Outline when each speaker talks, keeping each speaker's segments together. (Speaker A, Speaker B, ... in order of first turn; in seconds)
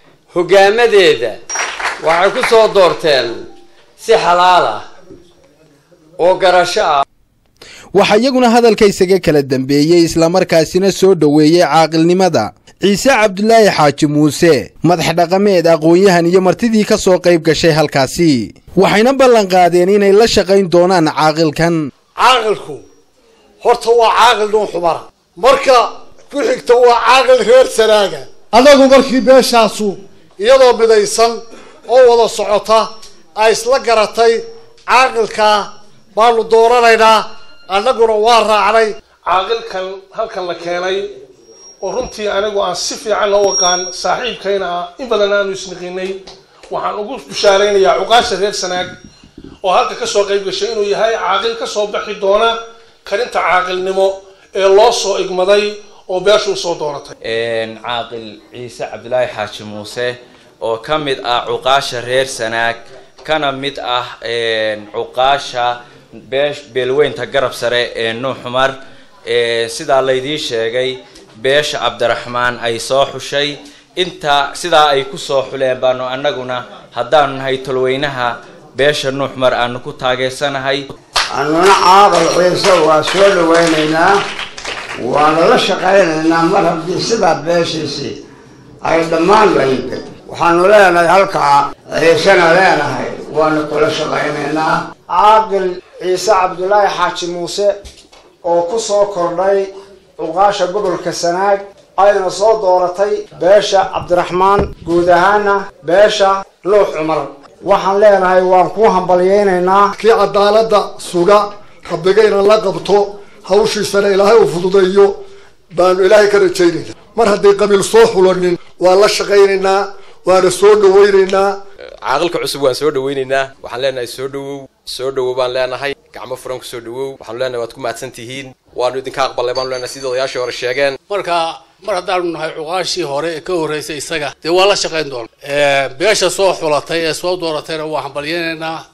Speaker A: 0.3-1.4, 2.0-3.4, 4.0-4.8, 6.2-7.0
Speaker B: 7.9-21.9
Speaker C: 22.2-22.8, 23.6-39.0, 110.0-115.2, 115.7-121.6
Speaker D: 39.3-41.1, 41.8-48.9, 49.6-57.1
Speaker E: 57.3-65.8, 66.3-68.7, 69.2-80.9
Speaker F: 81.3-84.2, 85.0-88.2, 88.8-94.8
Speaker G: 95.1-97.8, 98.4-109.9
Speaker H: 122.0-131.0
Speaker I: 131.1-138.8